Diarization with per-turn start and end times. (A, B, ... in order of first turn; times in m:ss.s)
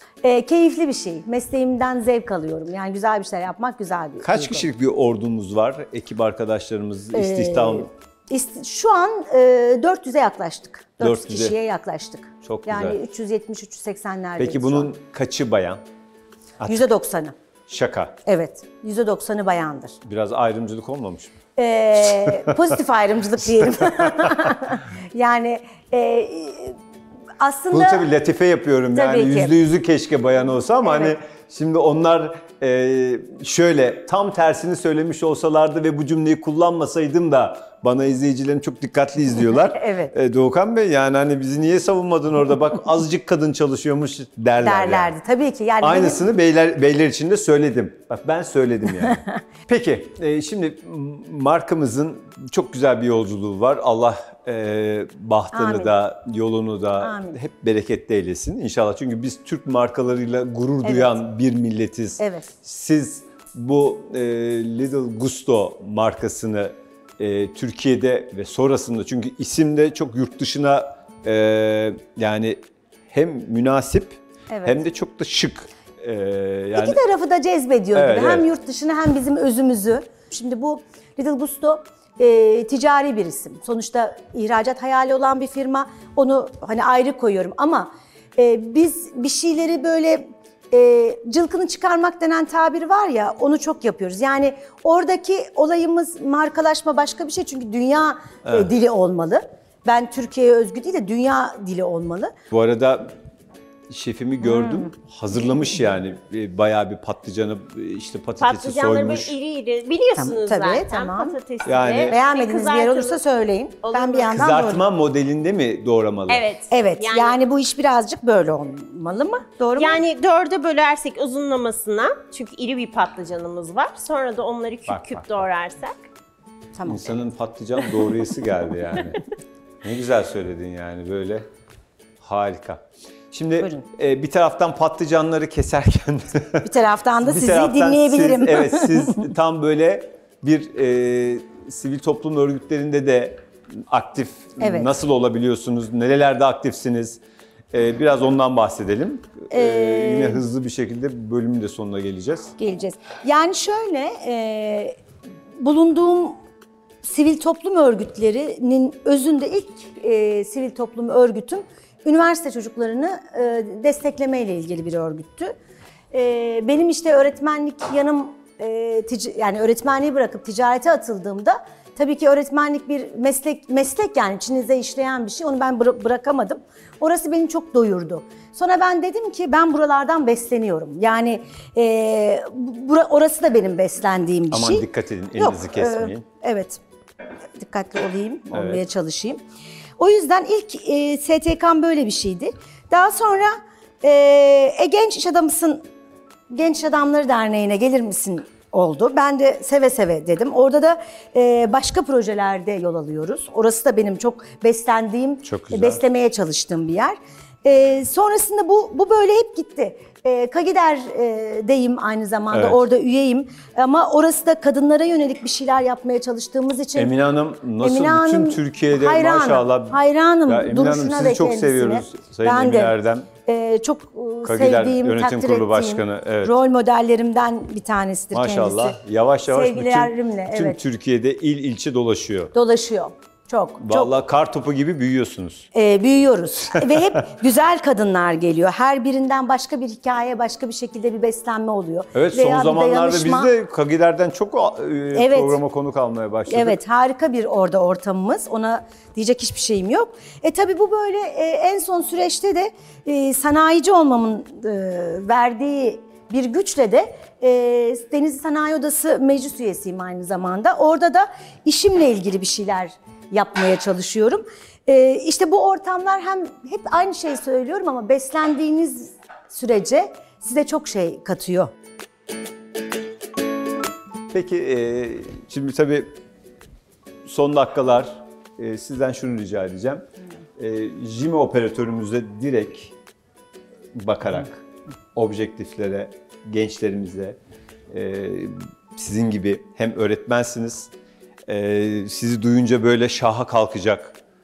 0:00.2-0:04.7 A
0:04.2-0:07.9 B
0:07.1-0:14.9 A
0:11.0-0:11.6 B
0:12.4-0:13.0 B
0:14.4-0:15.8 B
0:16.6-0:16.8 B
0:16.7-0:17.4 A
0:17.7-0:18.2 B
0:18.2-0:20.0 A
0:20.0-0:21.3 B
0:21.6-0:26.8 A
0:22.0-0:22.7 B
0:23.6-0:24.6 B
0:27.4-0:28.1 A
0:27.7-0:45.1 B
0:28.9-0:29.6 A
0:30.8-0:31.2 A
0:39.7-0:40.1 A
0:44.6-0:46.2 A
0:45.8-1:12.6 B
0:49.0-0:49.4 A
0:55.5-0:56.0 A
0:57.0-0:57.4 A
1:00.8-1:01.2 A
1:02.2-1:02.5 A
1:13.1-1:17.0 B
1:14.5-1:14.8 A
1:16.8-1:42.3 A
1:17.9-1:18.5 B
1:38.4-1:38.7 B
1:42.5-1:43.2 B
1:43.9-1:49.3 B
1:44.4-1:44.9 A
1:48.4-1:53.2 C
1:50.2-1:51.4 A
1:51.6-1:52.2 B
1:52.0-1:54.8 A
1:53.8-1:54.4 C
1:54.3-1:56.5 B
1:56.3-1:57.4 C
1:56.7-2:00.0 A
1:59.8-2:06.0 C
2:04.9-2:05.4 B
2:06.8-2:07.0 A
2:06.9-2:09.2 B
2:09.8-2:11.5 B
2:12.2-2:27.2 B
2:13.6-2:13.9 A
2:16.6-2:19.3 A
2:24.6-2:24.9 A
2:27.7-2:32.5 B
2:29.5-2:30.4 A
2:32.6-2:35.0 A
2:35.6-2:36.4 A
2:37.0-2:45.5 A
2:46.1-3:04.8 A
3:04.5-3:06.2 B
3:05.4-3:06.8 A
3:07.5-3:09.4 A
3:08.5-3:08.8 B
3:10.0-3:15.9 A
3:16.5-3:37.1 A
3:25.4-3:26.0 B
3:32.5-3:32.8 B
3:37.0-3:43.3 B
3:37.8-3:42.9 A
3:43.5-3:49.0 A
3:44.4-3:46.5 B
3:48.3-3:52.5 B
3:49.5-3:50.8 A
3:52.5-3:54.1 A
3:53.8-3:55.7 B
3:55.7-4:03.5 A
3:56.8-3:57.1 B
4:02.1-4:06.8 B
4:05.1-4:05.6 A
4:06.5-4:31.7 A
4:34.3-4:36.2 B
4:37.2-4:40.0 B
4:40.6-4:43.0 B
4:44.0-4:44.6 B
4:45.2-4:47.4 B
4:47.9-4:50.9 B
4:51.5-4:54.2 B